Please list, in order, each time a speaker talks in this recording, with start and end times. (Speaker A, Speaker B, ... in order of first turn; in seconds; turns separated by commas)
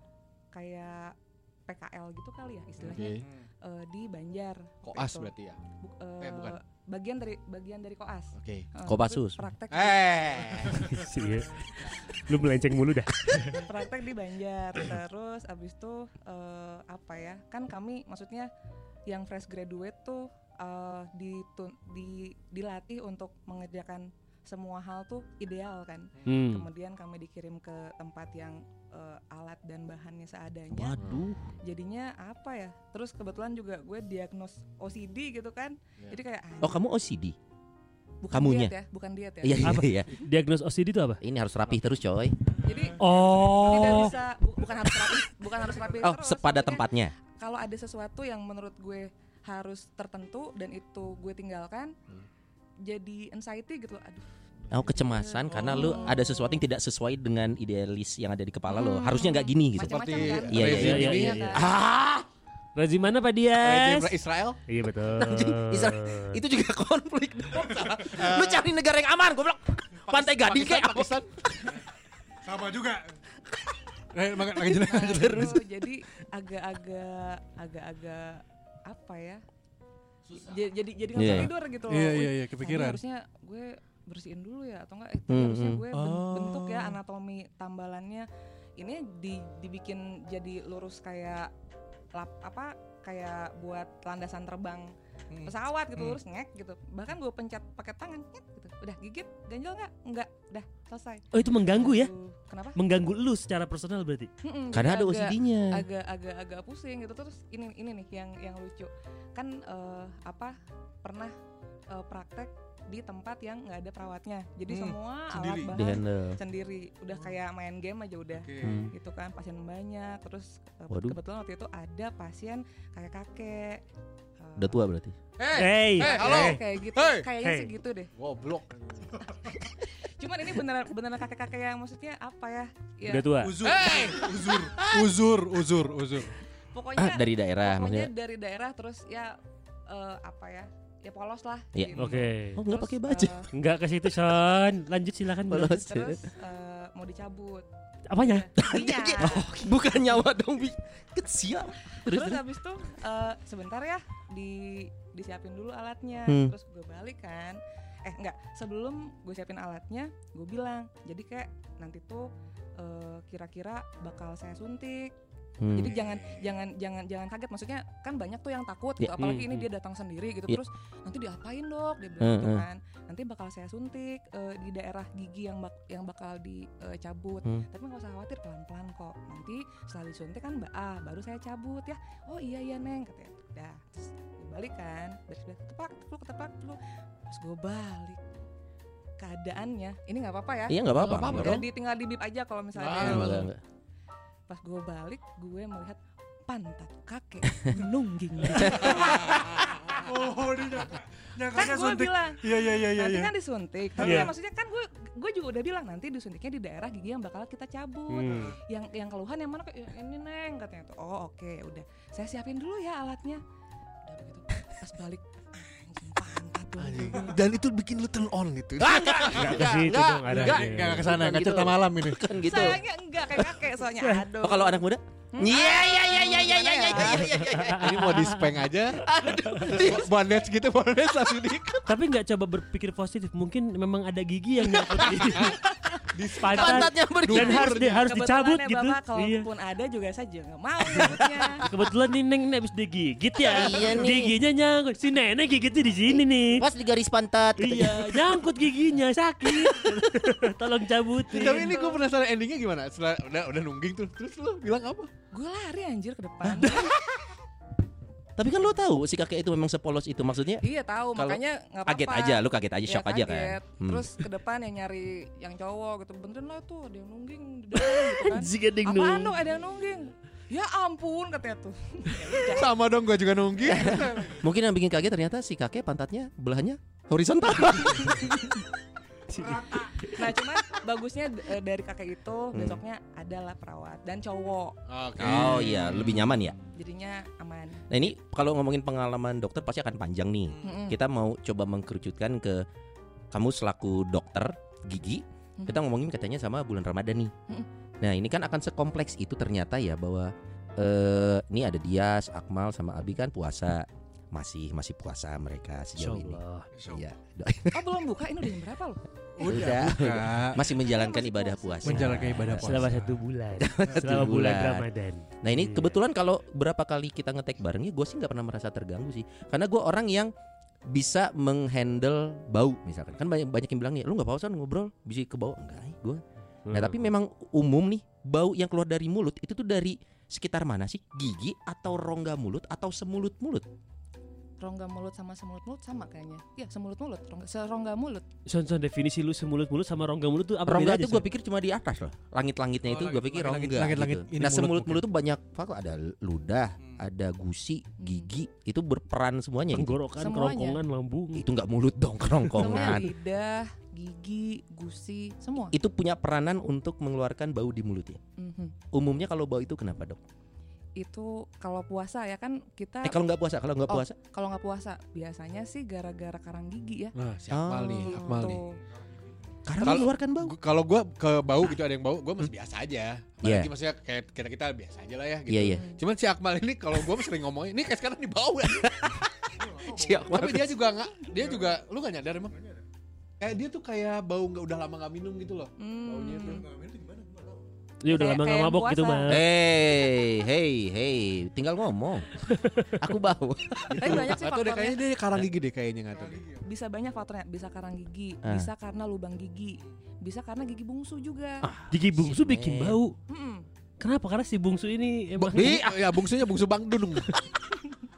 Speaker A: 0.5-1.1, Speaker A: 1.7-10.1, Speaker B: 2.8-3.3, Speaker B: 4.8-5.6, Speaker B: 6.2-6.5, Speaker B: 8.4-8.7, Speaker C: 8.8-9.5, Speaker B: 9.7-10.9, Speaker D: 10.7-13.6, Speaker A: 13.5-18.5, Speaker A: 19.1-31.0, Speaker D: 26.2-26.6, Speaker C: 30.7-31.4, Speaker A: 31.6-36.8, Speaker C: 36.6-37.4, Speaker A: 38.2-39.8, Speaker C: 38.3-38.7, Speaker C: 39.4-40.1, Speaker D: 39.6-41.2, Speaker C: 41.2-42.4, Speaker A: 42.6-51.9, Speaker D: 43.0-44.1, Speaker C: 45.9-47.1, Speaker A: 52.8-56.5, Speaker C: 54.7-62.2, Speaker A: 58.7-61.7, Speaker B: 59.8-61.4, Speaker D: 60.7-61.4, Speaker D: 62.8-66.4, Speaker B: 63.6-64.6, Speaker C: 65.2-71.2, Speaker B: 67.5-68.6, Speaker B: 70.1-71.3, Speaker E: 72.4-73.1, Speaker E: 74.1-75.6, Speaker A: 74.6-79.4, Speaker C: 75.2-75.5, Speaker A: 80.3-91.5, Speaker C: 81.1-81.5, Speaker E: 81.2-83.0, Speaker C: 85.3-85.8, Speaker E: 85.9-87.0, Speaker A: 92.1-102.8, Speaker D: 101.3-102.1, Speaker D: 102.8-104.3, Speaker A: 104.4-111.3, Speaker C: 104.7-105.8, Speaker A: 111.9-123.8, Speaker E: 114.7-115.7, Speaker C: 115.7-116.4, Speaker B: 118.4-118.8, Speaker C: 118.6-118.9, Speaker C: 120.9-121.2, Speaker A: 124.4-124.8, Speaker C: 124.6-125.2, Speaker B: 125.4-127.2, Speaker D: 125.5-126.6, Speaker A: 126.0-128.1, Speaker D: 127.4-127.7, Speaker B: 128.1-129.1, Speaker A: 129.4-133.4, Speaker D: 133.1-133.6, Speaker E: 133.4-136.3, Speaker B: 133.6-134.7, Speaker C: 134.7-135.1, Speaker A: 136.7-143.5, Speaker C: 136.9-138.1, Speaker C: 141.7-143.3, Speaker D: 141.9-142.6, Speaker D: 143.5-145.8, Speaker C: 145.5-146.2, Speaker A: 145.6-147.7, Speaker D: 148.1-148.5, Speaker A: 148.2-149.5, Speaker C: 148.6-152.4, Speaker A: 151.9-165.1, Speaker C: 156.3-156.5, Speaker C: 165.6-166.1, Speaker A: 165.7-188.2, Speaker D: 169.2-169.7, Speaker C: 172.2-172.6, Speaker A: 189.2-193.5, Speaker C: 190.7-191.7, Speaker B: 191.1-191.6, Speaker B: 192.8-193.3, Speaker C: 192.9-193.6, Speaker A: 194.5-199.9, Speaker C: 198.6-199.1, Speaker E: 199.0-203.3, Speaker A: 201.5-213.4, Speaker E: 204.0-204.3, Speaker D: 204.0-204.3, Speaker D: 208.1-208.5, Speaker A: 214.0-217.4, Speaker B: 216.8-220.0, Speaker C: 218.8-223.7, Speaker D: 219.2-221.1, Speaker E: 220.3-222.3, Speaker A: 222.4-227.4, Speaker D: 224.0-224.2, Speaker C: 224.3-228.0, Speaker D: 227.0-228.4, Speaker B: 227.7-229.0, Speaker C: 228.9-230.1, Speaker B: 229.6-231.9, Speaker D: 231.9-235.6, Speaker C: 234.8-235.5, Speaker B: 236.1-238.1, Speaker D: 236.4-239.5, Speaker C: 236.4-237.8, Speaker A: 238.1-241.7, Speaker C: 240.8-241.7, Speaker D: 241.7-246.6, Speaker C: 243.4-244.3, Speaker C: 246.1-248.4, Speaker D: 247.6-251.8, Speaker B: 251.3-255.1, Speaker A: 251.5-252.0, Speaker A: 255.3-256.9, Speaker C: 256.4-257.0, Speaker C: 258.4-260.6, Speaker A: 260.6-272.7, Speaker C: 261.1-264.2, Speaker C: 267.7-269.4, Speaker B: 272.4-274.3, Speaker C: 273.6-278.6, Speaker E: 279.4-279.8, Speaker A: 280.0-284.8, Speaker C: 282.5-282.8, Speaker B: 284.9-286.5, Speaker C: 285.2-286.6, Speaker A: 286.7-287.8, Speaker C: 287.9-292.6, Speaker A: 290.6-291.0, Speaker C: 293.3-297.3, Speaker A: 295.6-295.8, Speaker C: 298.0-308.0, Speaker D: 306.0-306.7, Speaker E: 306.7-307.0, Speaker A: 307.7-309.6, Speaker E: 309.4-310.6, Speaker C: 309.4-313.0, Speaker A: 310.6-312.2, Speaker E: 311.8-313.2, Speaker D: 312.5-316.0, Speaker C: 313.6-314.9, Speaker C: 315.4-320.3, Speaker C: 320.9-333.6, Speaker D: 326.6-327.0, Speaker A: 334.6-338.3, Speaker D: 338.5-341.2, Speaker C: 340.6-350.0, Speaker E: 342.9-345.0, Speaker A: 348.0-348.3, Speaker D: 349.7-351.4, Speaker A: 350.1-350.8, Speaker C: 351.3-353.1, Speaker A: 352.5-355.8, Speaker C: 355.7-358.2, Speaker A: 358.4-358.7, Speaker C: 358.9-360.2, Speaker A: 361.0-363.2, Speaker C: 363.0-364.1, Speaker A: 363.9-367.1, Speaker B: 367.1-368.6, Speaker C: 367.5-368.6, Speaker A: 367.9-368.8, Speaker C: 369.6-370.6, Speaker B: 369.8-379.2, Speaker C: 373.4-373.7, Speaker C: 375.5-375.8, Speaker A: 375.7-376.0, Speaker E: 379.7-380.2, Speaker C: 379.8-380.8, Speaker B: 379.9-382.5, Speaker B: 383.4-386.6, Speaker A: 385.8-386.6, Speaker E: 386.3-387.6, Speaker D: 388.0-389.4, Speaker A: 388.1-389.4, Speaker C: 389.3-394.3, Speaker D: 392.5-392.9, Speaker B: 393.9-396.4, Speaker A: 394.0-395.0, Speaker E: 396.2-396.6, Speaker A: 396.6-401.7, Speaker C: 398.4-398.7, Speaker C: 401.6-403.0, Speaker D: 401.9-403.1, Speaker A: 403.3-403.6, Speaker D: 404.0-405.8, Speaker B: 405.4-407.3, Speaker C: 405.5-406.2